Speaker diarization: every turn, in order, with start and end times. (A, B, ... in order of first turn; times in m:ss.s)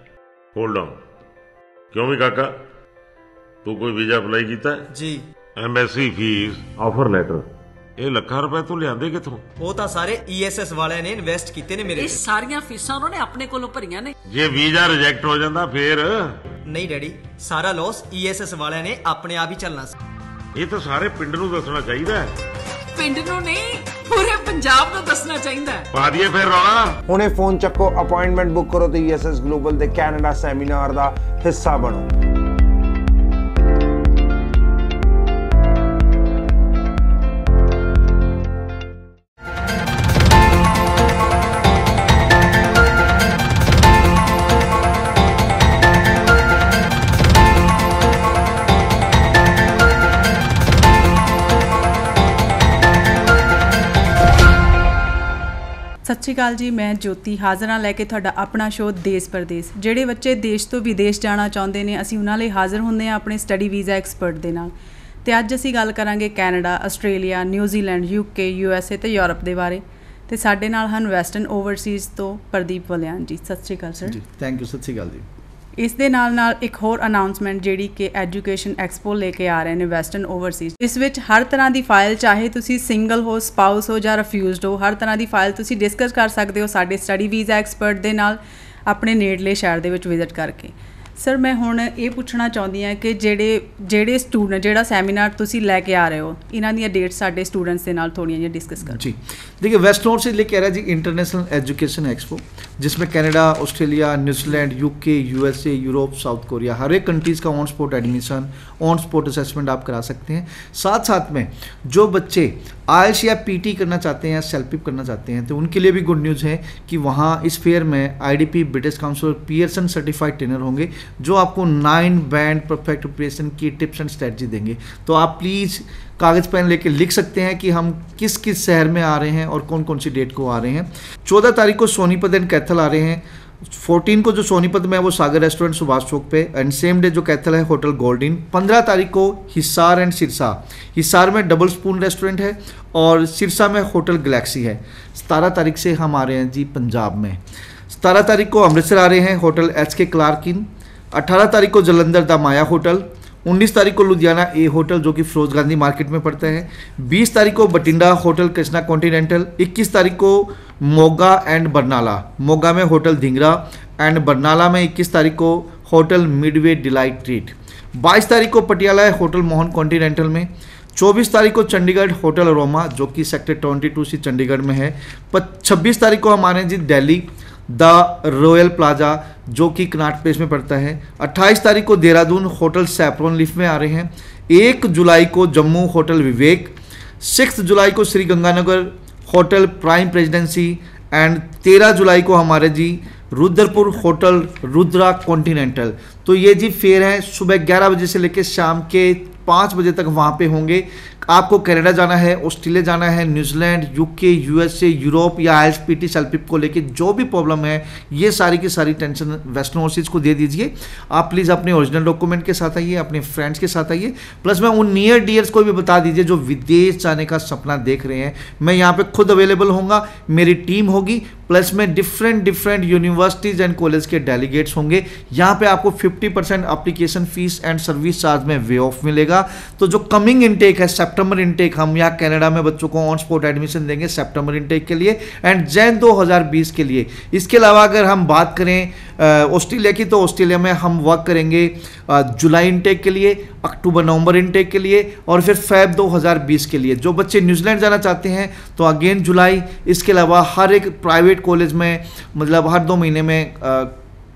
0:00.6-0:01.0 A
0:01.9-0:02.6 A
0:03.6-0:04.9 A
0:04.9-0:05.3 B
0:05.6-0:07.5 A
0:08.0-0:09.4 A
0:09.6-0:12.2 B
0:12.0-0:14.2 C
0:14.3-0:16.4 A
0:16.7-0:20.0 B
0:20.6-0:22.4 A
0:23.0-0:25.9 C
0:25.9-0:27.0 A
0:27.1-0:32.1 D
0:56.0-1:04.7 E
1:05.2-1:14.2 E
1:14.0-1:15.3 F
1:15.8-1:39.0 E
1:38.8-4:14.0 F